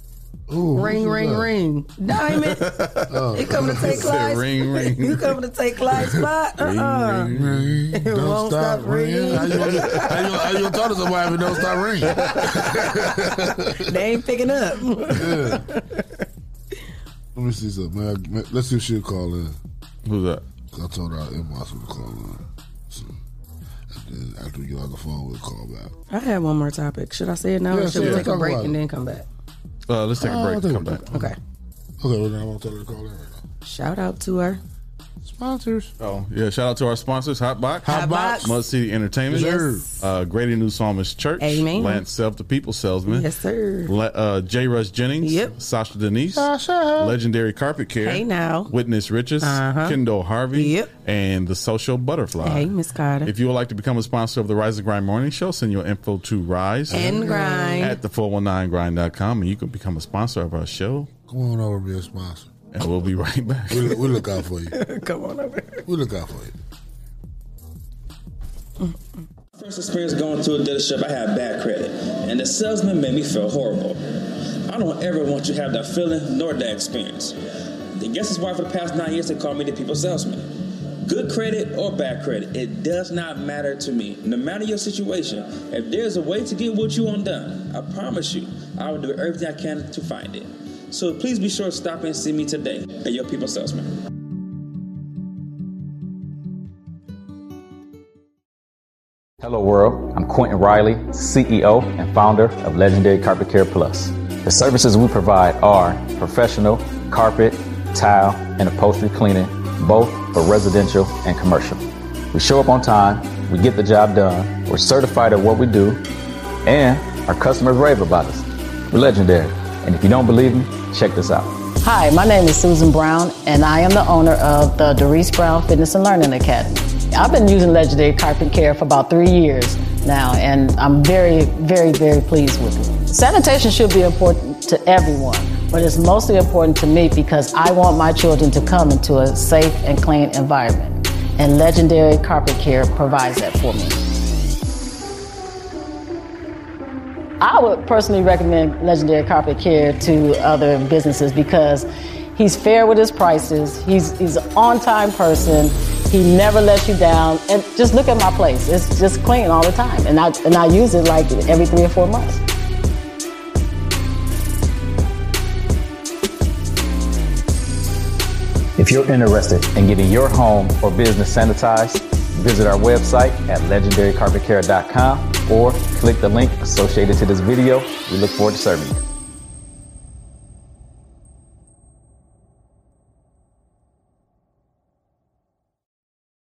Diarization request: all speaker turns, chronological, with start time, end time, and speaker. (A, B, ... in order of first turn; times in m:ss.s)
0:00.5-0:01.5 A
0:00.8-0:02.7 B
0:02.1-0:05.4 C
0:03.1-0:04.2 A
0:03.4-0:07.3 B
0:06.6-0:07.8 C
0:07.3-0:14.0 A
0:07.9-0:10.1 B
0:09.6-0:10.1 C
0:12.3-0:12.7 C
0:13.8-0:16.1 B
0:15.1-0:15.6 A
0:17.3-0:19.6 A
0:20.0-0:20.4 C
0:20.7-0:23.2 A
0:23.9-0:25.9 A
0:26.1-0:29.3 B
0:27.7-0:28.8 A
0:28.0-0:28.3 C
0:29.9-0:31.0 C
0:30.2-0:31.3 A
0:31.1-0:31.4 B
0:32.0-0:33.4 A
0:33.6-0:34.6 B
0:35.2-0:35.9 A
0:36.0-0:43.3 C
0:37.8-0:38.6 A
0:37.9-0:38.5 B
0:39.3-0:39.9 A
0:39.3-0:39.8 B
0:41.4-0:42.0 B
0:43.1-0:43.9 B
0:43.9-0:52.7 C
0:45.2-0:45.5 B
0:46.3-0:47.2 A
0:48.0-0:48.7 B
0:49.4-0:50.0 B
0:50.5-0:50.9 B
0:52.4-0:53.3 B
0:53.2-1:01.1 C
0:56.9-0:57.9 A
0:56.9-0:58.0 B
1:01.3-1:02.5 A
1:02.7-1:04.0 C
1:03.7-1:04.8 A
1:04.7-1:05.8 B
1:05.9-1:06.6 A
1:09.6-1:17.4 D
1:18.0-1:33.9 D
1:39.4-1:56.0 E
1:56.6-2:01.6 E
2:01.8-2:24.0 F
2:27.4-2:42.4 F
2:48.8-2:59.0 E